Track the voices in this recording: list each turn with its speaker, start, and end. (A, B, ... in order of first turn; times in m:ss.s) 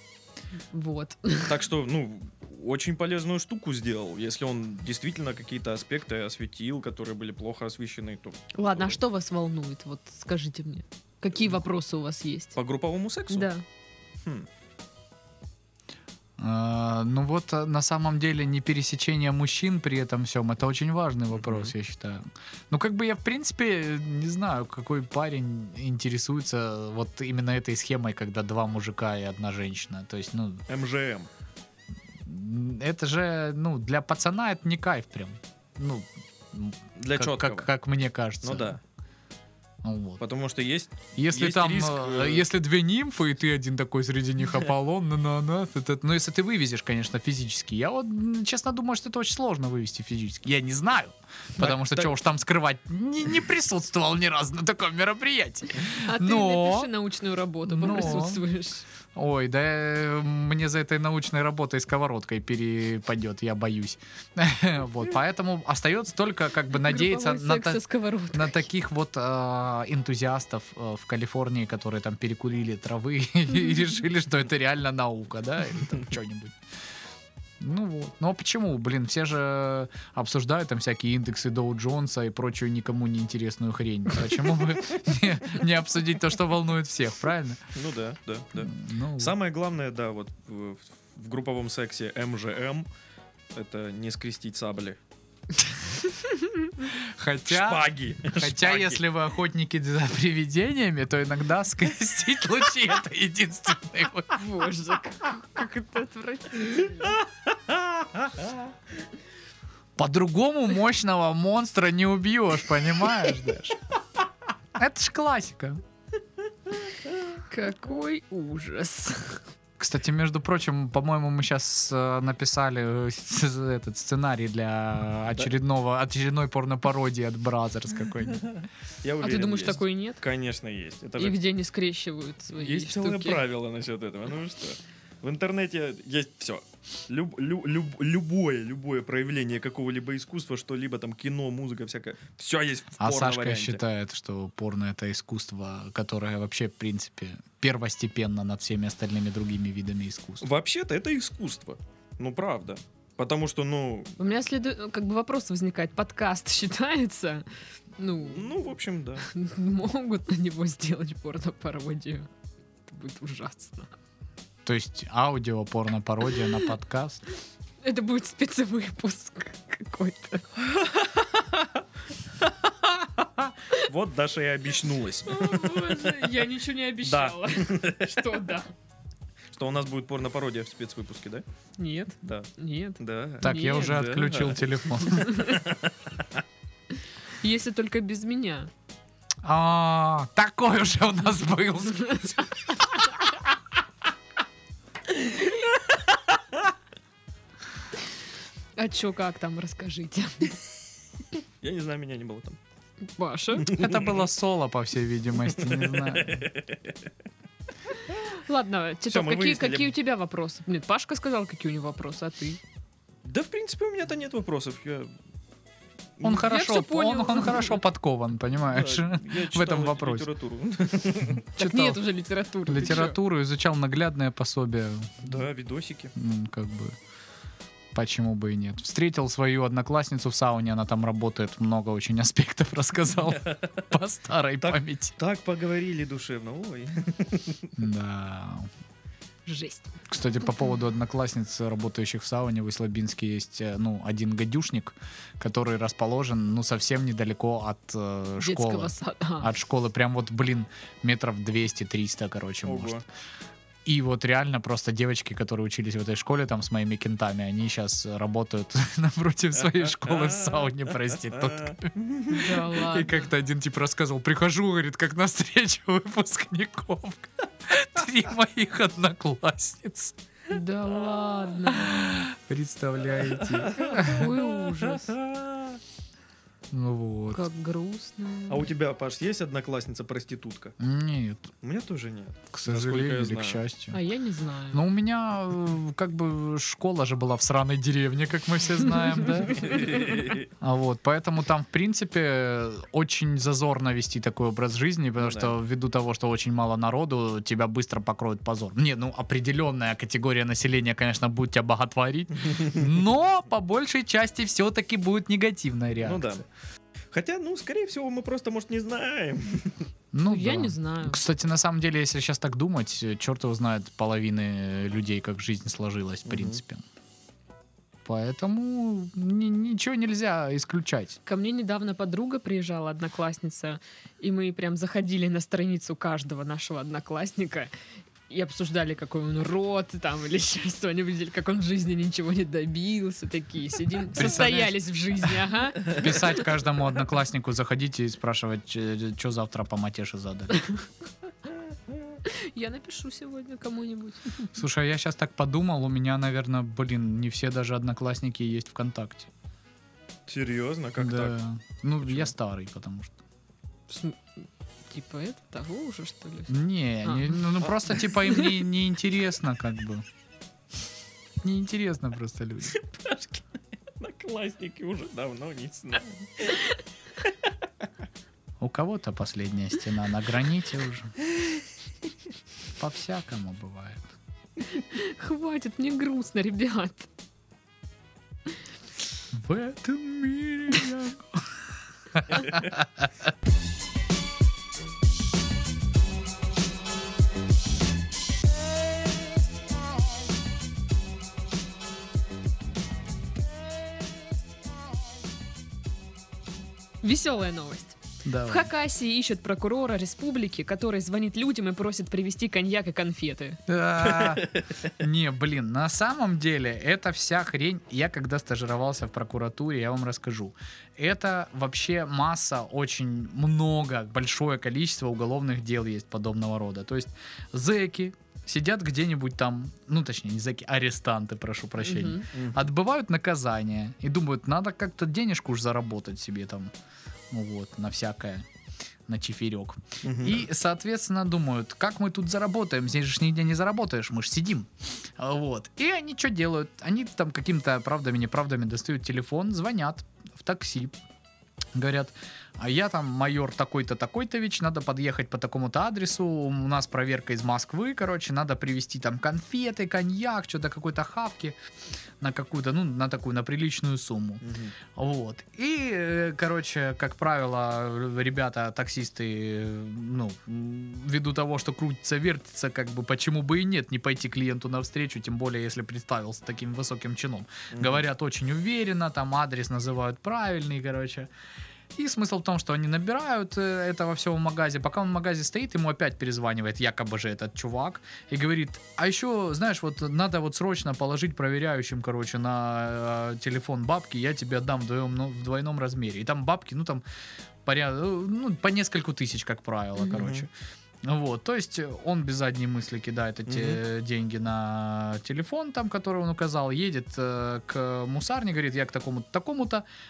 0:00.7-0:01.5 A
0:01.4-0:09.0 B
0:08.5-0:12.6 A
0:12.6-0:13.5 B
0:13.3-0:13.6 A
0:16.4-0:30.6 C
0:21.3-0:21.7 B
0:30.7-0:31.3 B
0:32.2-0:38.7 C
0:37.0-0:37.7 B
0:38.4-0:38.8 B
0:39.8-0:40.2 C
0:40.2-0:42.4 B
0:41.2-0:56.9 C
0:51.6-0:52.1 B
0:55.9-0:58.8 A
0:57.6-0:58.4 C
0:59.1-1:16.6 C
1:06.7-1:08.6 A
1:17.6-1:27.6 C
1:27.7-1:32.8 B
1:28.6-1:29.3 C
1:33.5-1:35.0 B
1:36.1-1:36.5 A
1:36.8-1:44.4 C
1:37.4-1:39.0 B
1:44.3-1:47.1 A
1:47.7-1:48.3 B
1:50.0-1:53.8 C
1:54.8-1:55.8 C
1:57.5-1:59.4 A
1:59.8-2:08.5 C
2:09.0-2:11.4 B
2:09.2-2:10.2 A
2:11.2-2:13.4 A
2:12.5-2:23.8 B
2:23.0-2:30.4 C
2:30.4-2:34.1 B
2:34.2-2:37.4 A
2:38.0-2:38.6 A
2:38.2-2:39.3 B
2:39.2-2:42.3 A
2:42.9-2:43.9 A
2:44.6-2:47.2 C
2:47.8-2:50.5 A
2:50.6-2:51.7 B
2:52.4-2:56.4 B
2:55.2-2:58.7 A
2:57.0-2:58.4 B
2:59.5-3:01.4 B
3:01.8-3:04.0 A
3:02.2-3:04.8 B
3:03.4-3:05.5 C
3:05.1-3:05.6 A
3:05.4-3:05.9 B
3:07.4-3:08.7 A
3:09.4-3:12.5 C
3:12.0-3:12.4 A
3:18.8-3:20.6 A
3:21.6-3:22.6 B
3:23.2-3:23.7 A
3:23.6-3:24.2 B
3:23.7-3:26.4 C
3:25.5-3:27.0 B
3:28.3-3:32.6 A
3:29.1-3:29.9 B
3:33.2-3:35.1 B
3:36.2-3:40.3 C
3:36.3-3:37.8 A
3:38.7-3:41.5 B
3:41.6-3:42.0 C
3:41.6-3:43.2 A
3:42.6-3:45.4 C
3:45.2-3:46.1 B
3:46.1-3:47.0 C
3:47.9-3:55.2 C
3:54.6-3:57.7 B
3:57.8-3:58.7 C
3:59.4-4:00.0 A
4:00.1-4:13.0 C
4:08.4-4:09.5 A
4:12.6-4:13.0 B
4:13.8-4:21.9 C
4:19.6-4:22.6 B
4:22.3-4:23.3 A
4:22.5-4:30.1 C
4:30.5-4:32.1 A
4:31.8-4:34.3 C
4:33.4-4:35.8 B
4:33.8-4:35.1 A
4:36.7-4:37.4 C
4:37.3-4:38.7 A
4:38.5-4:40.8 B
4:40.8-4:41.5 C
4:41.6-4:43.6 B
4:42.5-4:44.0 C
4:43.9-4:44.8 A
4:44.7-5:06.4 C
4:49.5-4:50.5 B
4:55.2-4:55.5 B
5:06.0-5:06.4 B
5:07.1-5:09.8 B
5:10.1-5:16.8 C
5:10.2-5:11.2 A
5:16.3-5:16.6 B
5:18.0-5:21.2 C
5:21.2-5:27.7 A
5:28.3-5:36.4 A
5:34.1-5:34.8 C
5:35.8-5:40.6 C
5:40.5-5:40.8 A
5:42.2-5:44.4 A
5:44.5-5:49.3 C
5:50.3-5:51.4 B
5:51.0-5:53.1 C
5:52.0-5:52.3 B
5:53.9-5:54.3 A
5:54.9-5:57.5 A
5:56.5-6:00.0 C
5:58.2-5:58.5 A
6:01.4-6:02.8 C
6:02.7-6:07.3 B
6:08.6-6:11.1 C
6:12.8-6:14.1 C
6:14.7-6:17.1 A
6:19.3-6:21.5 C
6:22.1-6:23.1 C
6:37.0-6:43.6 A
6:38.2-6:38.7 C
6:43.7-7:06.7 C
6:44.1-6:44.6 B
7:01.8-7:02.3 A
7:02.3-7:02.6 B
7:07.3-7:08.4 C
7:09.1-7:20.9 C
7:10.0-7:10.5 B
7:21.7-7:31.6 C
7:32.2-7:51.3 C
7:34.4-7:34.7 B
7:47.7-7:48.0 B
7:51.9-8:07.0 C
8:07.6-8:10.5 C
8:10.1-8:10.4 B
8:11.0-8:19.8 C
8:13.5-8:13.8 B